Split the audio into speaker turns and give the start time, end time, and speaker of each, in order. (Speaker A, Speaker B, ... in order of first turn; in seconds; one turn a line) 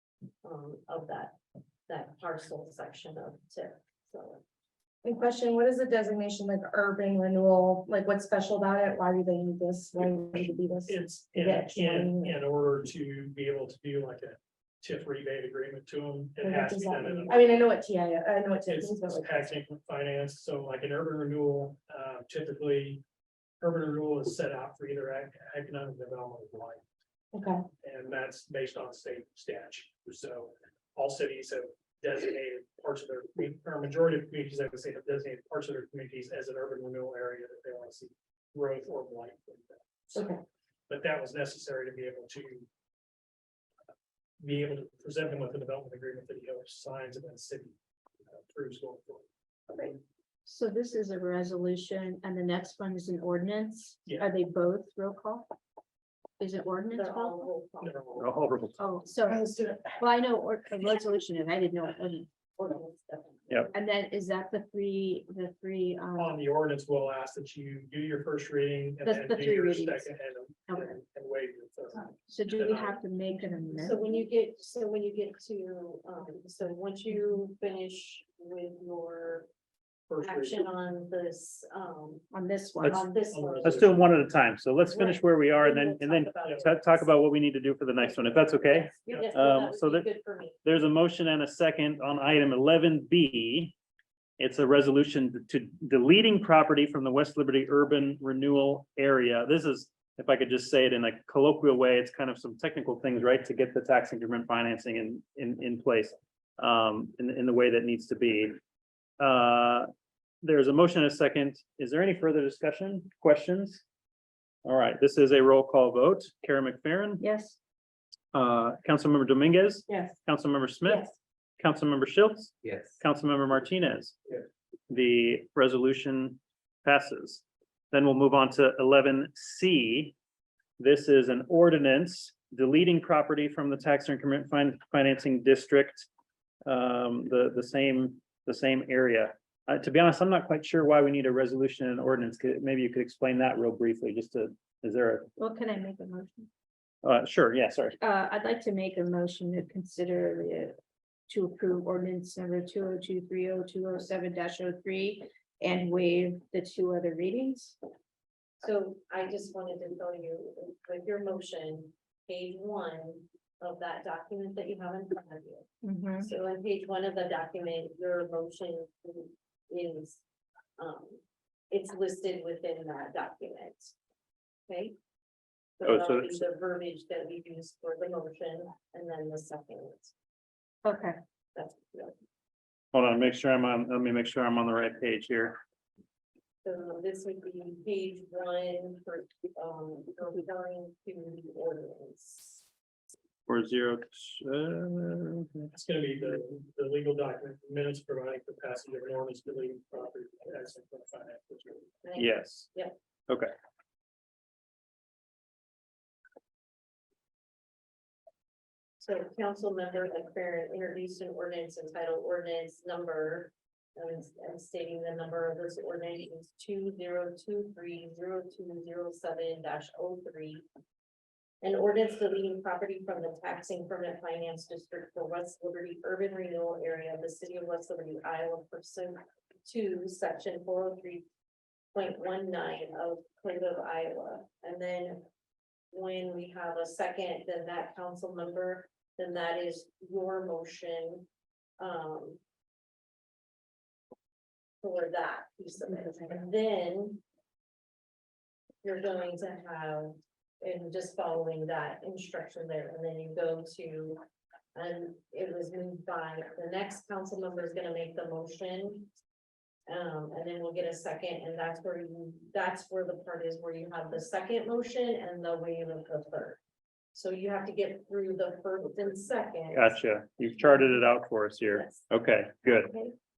Speaker A: 0.4-1.4
Speaker A: 1.9-4.4
Speaker B: 5.0-12.4
Speaker C: 10.8-17.6
Speaker B: 16.4-19.5
Speaker C: 18.6-23.0
Speaker C: 23.6-26.8
Speaker B: 27.3-27.6
Speaker C: 27.8-40.3
Speaker B: 40.1-40.4
Speaker C: 40.9-42.7
Speaker C: 44.4-47.7
Speaker C: 48.3-49.2
Speaker D: 50.4-55.5
Speaker C: 54.0-54.3
Speaker D: 56.4-57.5
Speaker A: 56.9-58.3
Speaker C: 57.8-58.2
Speaker E: 58.2-58.8
Speaker D: 58.8-59.4
Speaker B: 59.3-60.0
Speaker D: 60.0-62.3
Speaker A: 62.5-63.7
Speaker D: 63.7-66.3
Speaker C: 66.2-73.0
Speaker D: 69.0-70.1
Speaker D: 72.3-74.0
Speaker A: 73.8-79.5
Speaker C: 80.1-80.6
Speaker A: 80.2-82.3
Speaker D: 82.3-82.9
Speaker A: 82.8-83.9
Speaker C: 82.9-84.0
Speaker E: 83.6-90.1
Speaker A: 84.8-87.1
Speaker A: 88.0-90.6
Speaker E: 90.6-93.7
Speaker E: 94.4-108.6
Speaker E: 109.2-109.9
Speaker E: 110.4-113.8
Speaker E: 114.6-117.2
Speaker D: 117.2-117.6
Speaker E: 118.3-121.1
Speaker B: 119.9-120.1
Speaker E: 121.6-124.2
Speaker E: 124.9-130.2
Speaker E: 130.8-136.1
Speaker E: 136.7-145.3
Speaker D: 145.4-146.5
Speaker E: 147.0-147.9
Speaker D: 148.0-150.8
Speaker D: 151.3-157.8
Speaker A: 158.6-165.7
Speaker D: 165.8-166.3
Speaker A: 166.2-170.2
Speaker A: 170.8-173.9
Speaker A: 174.7-174.9
Speaker A: 175.8-180.1
Speaker E: 175.8-176.4
Speaker D: 180.8-181.2
Speaker A: 181.5-182.1
Speaker E: 182.9-185.6
Speaker A: 186.6-192.6
Speaker E: 193.5-195.7
Speaker C: 195.7-201.9
Speaker A: 202.0-202.9
Speaker E: 202.2-202.7
Speaker A: 209.0-220.6
Speaker A: 221.6-231.2
Speaker A: 231.9-235.2
Speaker A: 235.9-241.3
Speaker A: 241.8-242.4
Speaker A: 244.8-247.2
Speaker A: 248.8-254.2
Speaker A: 254.7-259.1
Speaker A: 259.9-266.6
Speaker A: 267.1-270.0
Speaker E: 269.7-272.9
Speaker A: 271.7-272.1